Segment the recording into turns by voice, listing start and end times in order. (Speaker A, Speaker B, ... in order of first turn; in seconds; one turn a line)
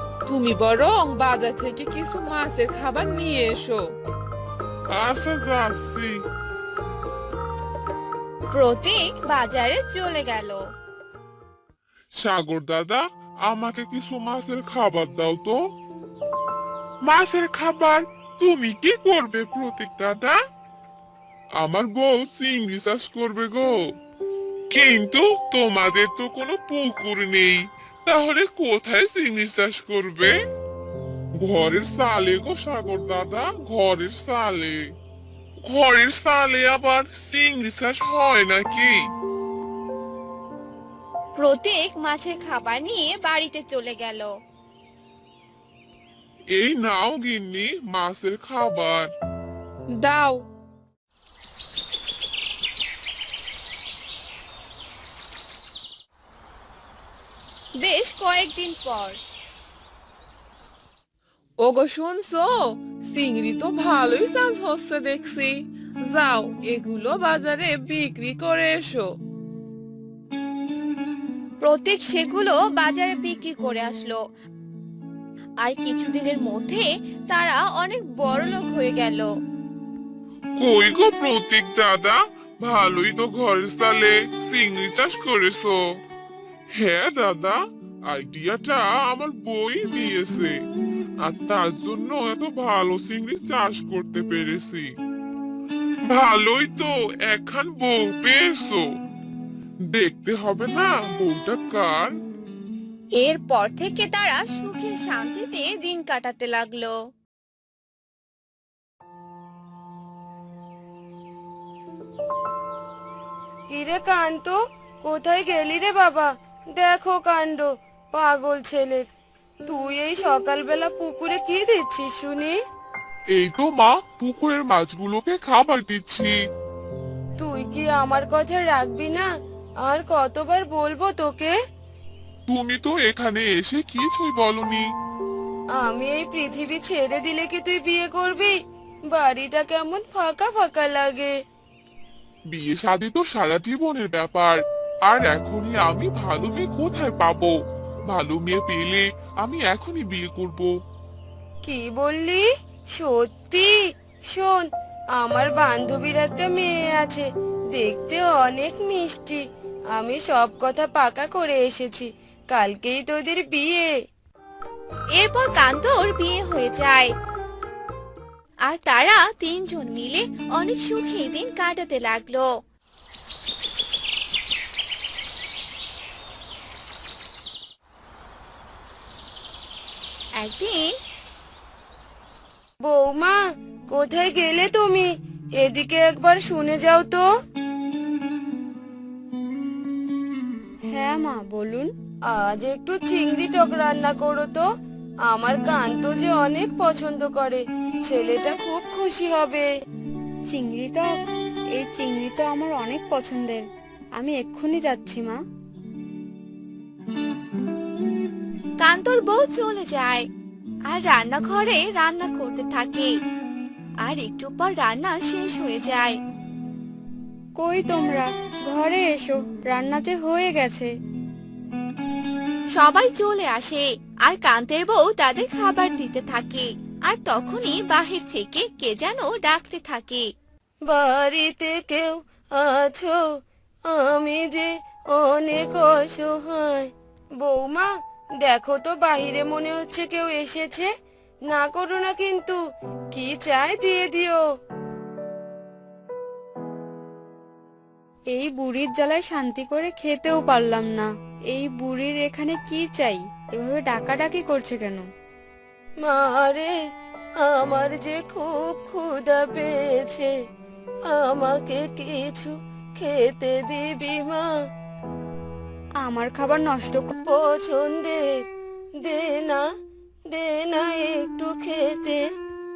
Speaker A: 0.3-3.8
Speaker B: 4.9-6.1
Speaker C: 8.5-10.6
Speaker B: 12.2-15.6
Speaker B: 17.1-20.3
Speaker B: 21.6-23.7
Speaker B: 24.7-30.3
Speaker B: 31.4-34.8
Speaker B: 35.7-38.9
Speaker C: 41.4-44.3
Speaker B: 46.5-49.1
Speaker A: 50.0-50.4
Speaker C: 57.8-59.2
Speaker A: 61.6-65.6
Speaker A: 66.1-69.1
Speaker C: 71.6-74.2
Speaker C: 75.6-79.3
Speaker B: 80.6-85.8
Speaker B: 86.8-87.6
Speaker B: 88.1-90.5
Speaker B: 91.2-94.8
Speaker B: 96.1-98.8
Speaker B: 99.9-102.1
Speaker C: 103.2-106.9
Speaker D: 113.7-119.1
Speaker D: 119.7-122.6
Speaker B: 123.3-126.3
Speaker D: 127.4-129.3
Speaker D: 129.8-131.5
Speaker B: 132.5-134.8
Speaker D: 135.8-138.6
Speaker D: 139.1-141.3
Speaker B: 142.5-147.5
Speaker B: 148.1-150.7
Speaker D: 151.7-153.7
Speaker D: 154.3-154.7
Speaker D: 155.2-159.4
Speaker D: 160.0-163.9
Speaker C: 165.2-167.1
Speaker C: 168.7-172.5
Speaker C: 180.4-180.9
Speaker D: 182.8-183.4
Speaker D: 183.9-187.3
Speaker E: 190.9-191.9
Speaker D: 192.3-194.7
Speaker D: 195.3-199.7
Speaker E: 200.5-201.1
Speaker E: 201.8-203.7
Speaker E: 204.2-205.4
Speaker C: 208.8-210.2
Speaker C: 210.9-213.1
Speaker C: 214.1-216.2
Speaker E: 217.6-220.9
Speaker C: 222.8-230.3
Speaker D: 230.9-233.2
Speaker D: 233.9-237.9
Speaker D: 238.4-240.9
Speaker D: 241.5-242.6
Speaker D: 243.1-244.4
Speaker E: 248.3-255.0
Speaker D: 256.0-256.7
Speaker D: 257.4-260.3
Speaker D: 261.1-264.5
Speaker E: 266.0-267.1
Speaker D: 267.3-268.4
Speaker D: 269.0-269.7
Speaker D: 270.3-272.2